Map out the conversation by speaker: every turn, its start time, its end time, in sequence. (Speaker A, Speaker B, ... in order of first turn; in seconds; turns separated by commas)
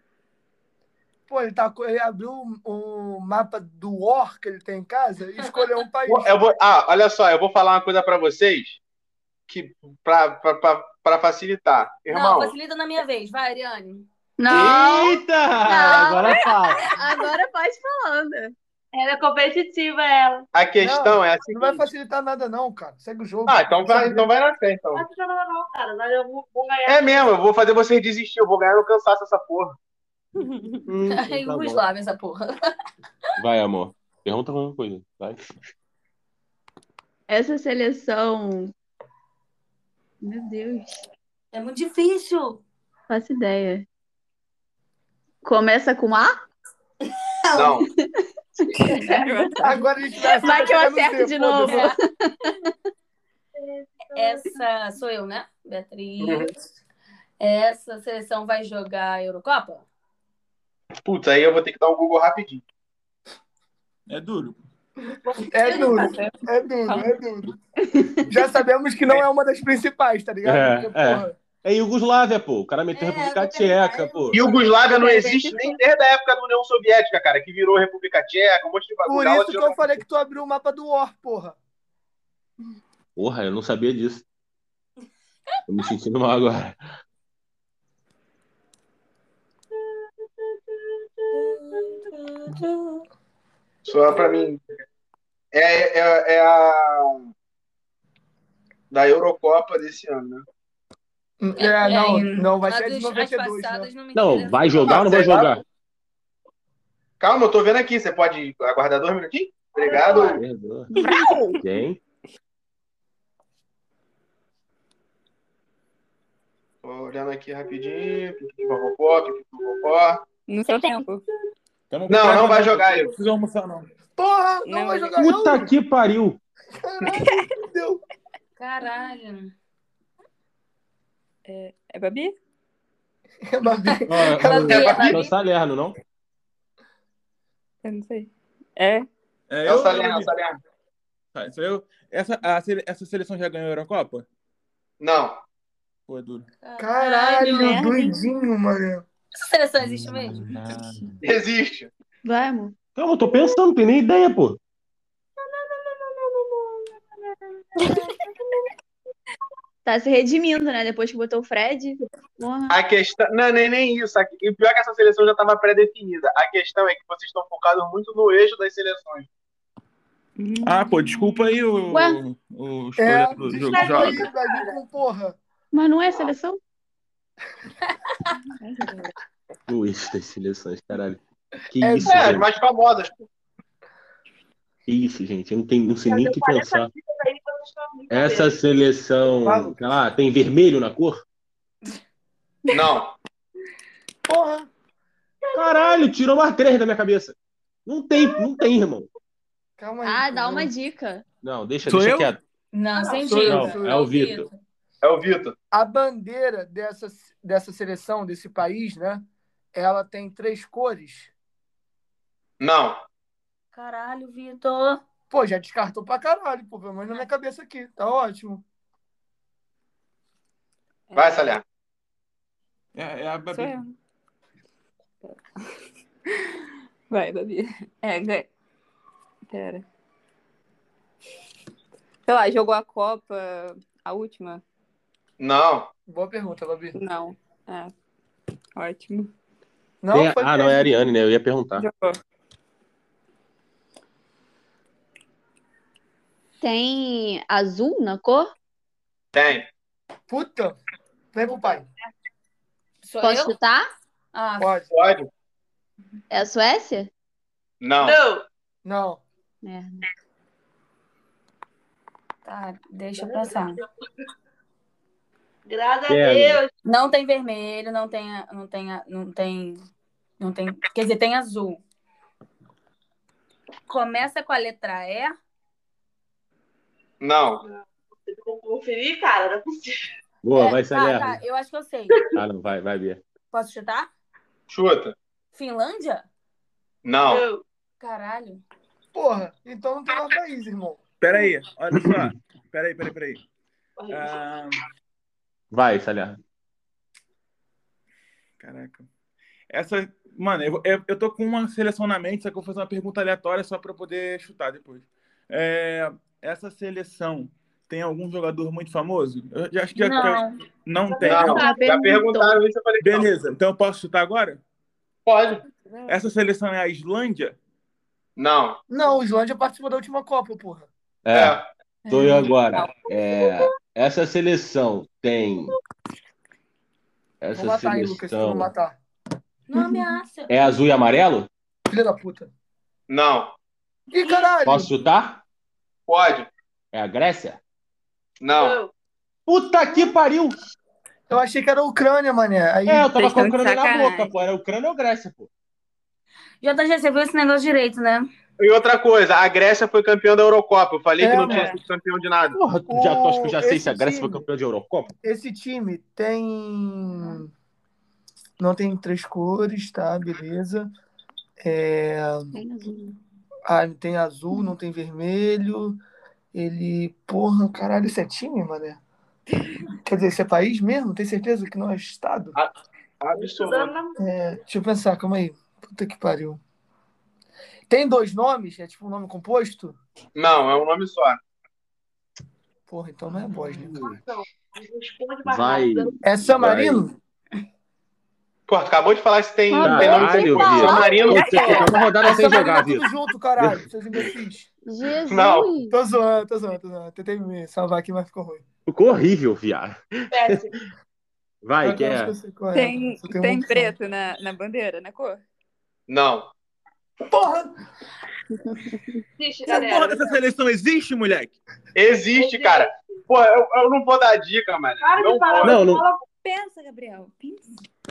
Speaker A: 1.3-6.3, Speaker B: 6.1-8.8, Speaker B: 9.5-12.5, Speaker C: 12.1-14.9, Speaker D: 14.4-16.3, Speaker E: 14.5-16.9, Speaker D: 16.9-18.5, Speaker F: 18.9-20.5, Speaker B: 20.5-21.9, Speaker A: 20.8-24.3, Speaker B: 23.5-25.0, Speaker F: 24.9-27.1, Speaker B: 26.9-29.8, Speaker E: 30.9-31.8, Speaker C: 31.1-32.5, Speaker E: 33.4-35.5, Speaker D: 37.3-38.7, Speaker D: 40.2-41.0, Speaker C: 41.5-42.6, Speaker D: 43.1-43.9, Speaker D: 45.4-46.4, Speaker B: 47.5-47.9, Speaker D: 48.7-49.2, Speaker G: 49.0-49.8, Speaker A: 49.6-51.9, Speaker D: 50.3-52.0, Speaker C: 51.6-52.0, Speaker F: 53.5-54.6, Speaker C: 54.1-56.6, Speaker B: 56.2-56.5, Speaker C: 57.4-59.8, Speaker B: 61.0-62.6, Speaker H: 64.1-64.6, Speaker F: 65.2-66.1, Speaker A: 65.4-67.5, Speaker G: 65.7-66.3, Speaker G: 66.8-67.2, Speaker A: 68.3-71.3, Speaker E: 70.4-74.4, Speaker C: 72.9-75.6, Speaker B: 74.3-80.0, Speaker G: 74.9-75.6, Speaker A: 79.0-81.5, Speaker E: 83.2-84.2, Speaker E: 85.7-86.8, Speaker C: 91.3-93.0, Speaker B: 93.8-94.6, Speaker B: 95.5-97.3, Speaker B: 98.9-100.4, Speaker A: 101.4-103.9, Speaker C: 101.6-105.2, Speaker E: 104.1-105.6, Speaker B: 104.8-105.6, Speaker B: 107.2-110.4, Speaker F: 109.8-110.4, Speaker E: 110.2-110.9, Speaker D: 110.9-111.6, Speaker E: 111.5-112.0, Speaker B: 116.8-120.2, Speaker G: 120.5-121.2, Speaker H: 121.9-123.9, Speaker B: 122.1-123.1, Speaker A: 124.2-125.7, Speaker G: 124.7-125.2, Speaker E: 125.2-126.4, Speaker A: 126.8-128.0, Speaker C: 128.6-129.5, Speaker G: 131.4-132.3, Speaker A: 133.4-134.9, Speaker E: 134.1-135.9, Speaker C: 134.4-135.3, Speaker B: 134.7-135.1, Speaker G: 137.8-139.1, Speaker H: 139.5-140.3, Speaker B: 139.6-140.6, Speaker H: 141.3-144.2, Speaker B: 145.0-145.4, Speaker H: 146.1-146.4, Speaker C: 146.6-147.8, Speaker A: 146.8-149.1, Speaker D: 147.4-148.2, Speaker C: 149.3-150.4, Speaker H: 150.0-151.2, Speaker E: 150.3-151.0, Speaker B: 151.2-151.9, Speaker D: 152.2-152.8, Speaker E: 152.9-154.6, Speaker F: 155.4-158.6, Speaker D: 159.8-162.8, Speaker B: 162.7-169.3, Speaker G: 170.4-171.6, Speaker H: 170.6-174.3, Speaker D: 171.9-172.2, Speaker A: 173.0-175.4, Speaker F: 173.5-174.8, Speaker D: 175.7-176.6, Speaker G: 178.6-179.1, Speaker E: 179.7-182.5, Speaker A: 181.8-182.4, Speaker B: 182.0-183.1, Speaker E: 184.8-186.9, Speaker F: 186.1-188.6, Speaker E: 188.1-191.2, Speaker A: 189.4-189.7, Speaker B: 192.7-193.1, Speaker A: 194.3-194.7, Speaker F: 195.4-196.1, Speaker E: 195.5-197.3, Speaker E: 197.8-199.1, Speaker F: 198.1-198.7, Speaker A: 199.8-200.7, Speaker D: 200.0-201.2, Speaker E: 201.4-202.4, Speaker H: 201.8-202.3, Speaker C: 202.7-204.5, Speaker F: 202.9-203.7, Speaker A: 203.1-203.9, Speaker E: 203.5-204.5, Speaker B: 205.0-205.5, Speaker A: 205.7-211.3, Speaker B: 212.6-213.0, Speaker C: 213.7-215.0, Speaker A: 215.3-218.6, Speaker G: 221.1-221.6, Speaker B: 221.1-221.6, Speaker H: 222.9-223.8, Speaker G: 223.5-223.9, Speaker G: 227.1-228.5, Speaker G: 229.5-229.8, Speaker G: 232.2-234.6, Speaker B: 235.4-235.9, Speaker A: 236.1-236.9, Speaker G: 236.9-237.9, Speaker G: 238.8-239.3, Speaker A: 240.0-241.0, Speaker E: 240.1-241.9, Speaker G: 241.8-242.2, Speaker D: 246.6-248.5, Speaker B: 249.3-249.7, Speaker A: 250.3-250.8, Speaker A: 251.3-251.9, Speaker C: 253.0-253.5, Speaker D: 253.2-253.9, Speaker C: 254.3-254.8, Speaker A: 254.6-254.9, Speaker B: 254.9-255.3, Speaker D: 256.3-257.1, Speaker B: 257.8-258.2, Speaker F: 258.0-258.4, Speaker A: 258.8-259.2, Speaker D: 259.6-260.0, Speaker C: 262.4-263.8, Speaker F: 263.2-263.8, Speaker F: 265.7-266.7, Speaker E: 266.1-266.6, Speaker C: 266.8-269.8, Speaker C: 270.4-271.8, Speaker C: 273.9-275.3, Speaker B: 277.2-277.6, Speaker F: 277.6-280.1, Speaker E: 280.4-281.4, Speaker C: 280.6-282.2, Speaker E: 282.3-283.2, Speaker C: 283.5-284.1, Speaker B: 284.7-285.1, Speaker C: 285.5-286.2, Speaker B: 287.0-287.4, Speaker F: 287.3-287.6, Speaker C: 288.0-288.6, Speaker A: 289.1-291.0, Speaker H: 291.2-293.4, Speaker F: 294.0-294.4, Speaker H: 294.1-294.8, Speaker E: 295.7-296.4, Speaker H: 298.6-299.1, Speaker H: 299.7-311.6, Speaker C: 309.9-310.6, Speaker F: 311.1-311.9, Speaker B: 311.2-313.3, Speaker D: 311.5-312.6, Speaker H: 313.0-314.6, Speaker B: 315.2-315.6, Speaker G: 315.9-316.1, Speaker H: 316.1-317.6, Speaker B: 318.4-318.8, Speaker A: 318.9-320.9, Speaker E: 321.2-325.7, Speaker B: 321.3-321.7, Speaker F: 323.3-323.7, Speaker E: 327.4-328.7, Speaker A: 327.6-329.0, Speaker C: 329.7-330.7, Speaker A: 329.7-330.0, Speaker E: 330.5-331.5, Speaker A: 331.9-332.5, Speaker B: 333.1-333.5, Speaker A: 334.1-334.9, Speaker E: 334.6-335.4, Speaker B: 336.1-336.5, Speaker E: 336.9-337.6, Speaker B: 338.4-338.8, Speaker F: 338.5-338.9, Speaker E: 339.5-340.6, Speaker A: 341.3-343.1, Speaker E: 342.9-345.5, Speaker G: 343.1-344.3, Speaker C: 346.6-348.3, Speaker B: 348.6-352.6, Speaker A: 351.2-351.8, Speaker E: 352.5-355.1, Speaker A: 352.9-354.4, Speaker A: 355.2-357.5, Speaker A: 358.6-360.9, Speaker A: 361.6-362.5, Speaker D: 362.5-363.2, Speaker A: 363.7-366.0, Speaker A: 366.5-369.0, Speaker A: 370.0-372.6, Speaker B: 372.5-373.9, Speaker F: 373.3-374.2, Speaker A: 374.2-376.6, Speaker A: 377.9-380.0, Speaker B: 380.3-381.4, Speaker A: 382.9-383.9, Speaker F: 383.9-386.2, Speaker E: 385.4-387.1, Speaker A: 386.2-387.1, Speaker B: 388.7-391.9, Speaker D: 389.7-391.1, Speaker E: 389.8-394.2, Speaker F: 389.9-392.0, Speaker A: 392.2-394.7, Speaker D: 394.9-396.0, Speaker B: 395.3-395.7, Speaker A: 395.9-398.6, Speaker E: 398.9-400.6, Speaker F: 400.3-400.9, Speaker E: 401.6-402.3, Speaker A: 401.8-403.9, Speaker G: 402.7-405.4, Speaker B: 406.1-406.5, Speaker A: 407.3-407.7, Speaker D: 408.9-409.2, Speaker F: 409.4-410.4, Speaker H: 409.7-411.6, Speaker B: 411.9-415.9, Speaker F: 412.3-412.9, Speaker F: 415.0-416.2, Speaker E: 415.6-416.0, Speaker G: 416.4-417.8